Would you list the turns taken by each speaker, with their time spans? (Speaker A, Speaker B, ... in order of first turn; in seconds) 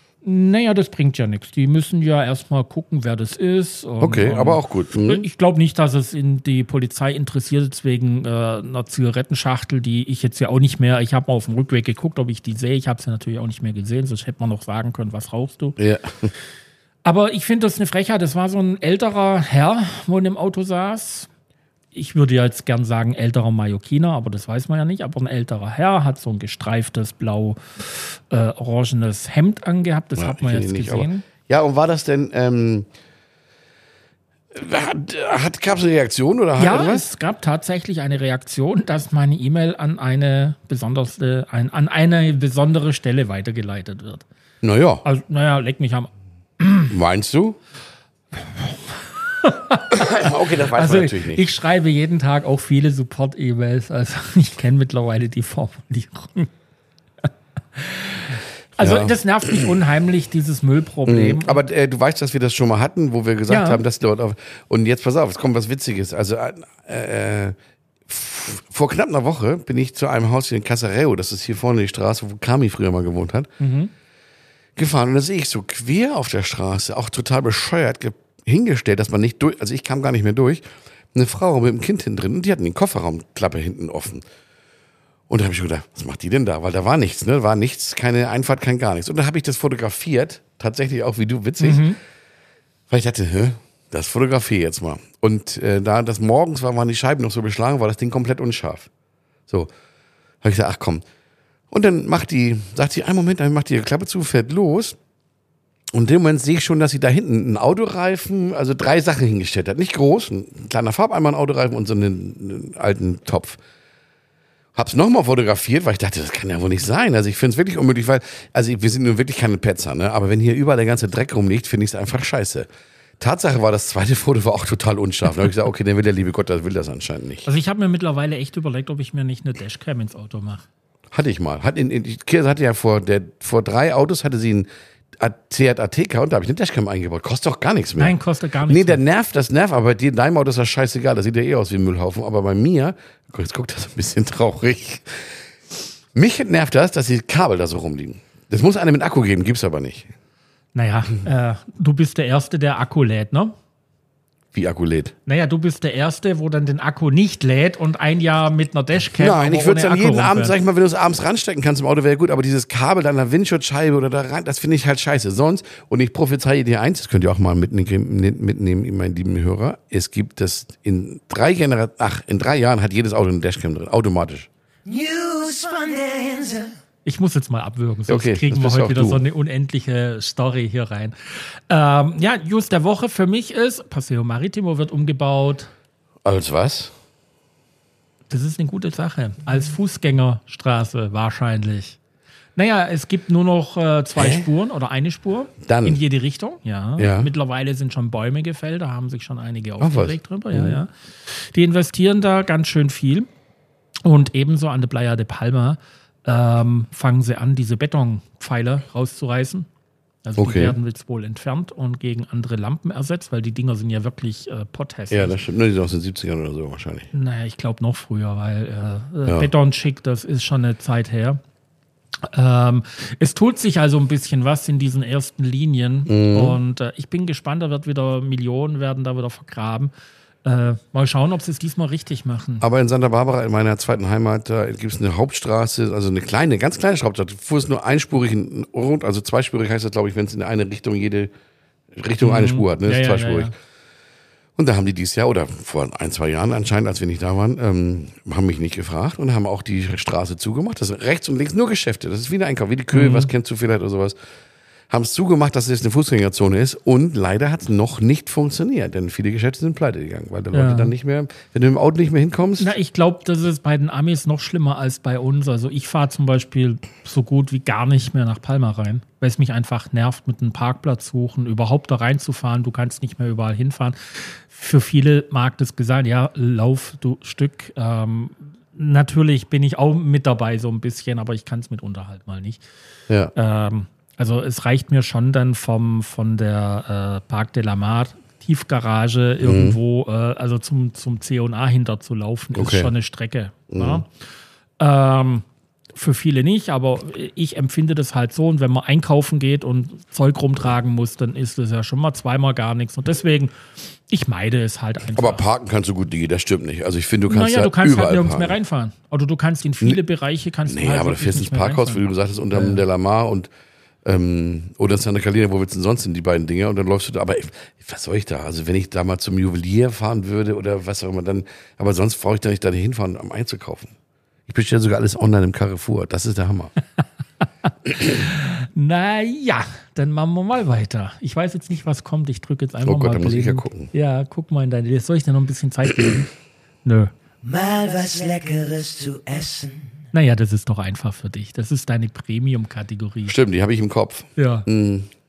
Speaker A: 0.2-15.8, 17.0-21.3, 21.9-31.2, 36.6-44.2, 45.0-46.9, 48.3-56.5, 57.8-61.6, 63.5-63.8, 73.6-73.9, 91.6-92.0, 127.4-130.6, 138.0-139.0, 150.7-153.5, 155.2-160.6, 177.0-185.7, 188.3-192.0, 192.6-203.3, 204.0-209.7, 210.2-215.3, 217.1-221.4, 222.3-229.9, 230.4-232.7, 242.2-243.5, 252.9-253.3, 260.5-260.9, 262.6-282.6, 283.3-294.1, 294.8-303.6, 304.1-305.4, 307.3-312.8, 328.0-336.3, 336.8-337.1, 340.1-343.3, 344.4-344.7
Speaker B: 4.0-5.2, 15.8-16.3, 30.1-32.9, 34.5-37.0, 44.6-45.0, 46.9-47.6, 49.9-51.4, 58.8-59.7, 61.1-67.5, 68.1-73.5, 74.8-84.2, 85.3-91.9, 92.9-98.9, 100.4-101.0, 101.7-105.0, 105.9-113.6, 114.7-122.7, 123.2-127.5, 131.1-138.2, 138.7-145.3, 146.1-150.1, 154.5-155.1, 159.2-174.5, 178.1-179.2, 186.2-186.9, 194.2-194.5, 195.6-196.0, 197.0-197.3, 199.8-200.8, 210.4-210.8, 215.1-217.1, 226.1-226.6, 232.6-241.3, 241.9-243.5, 244.6-254.2, 254.9-262.7, 283.1-283.3, 289.4-289.8, 292.5-292.9, 293.7-294.0, 305.1-308.6, 310.7-313.5, 314.0-323.9, 324.5-326.7, 332.8-333.9, 343.2-345.1
Speaker C: 174.8-176.7, 337.4-340.0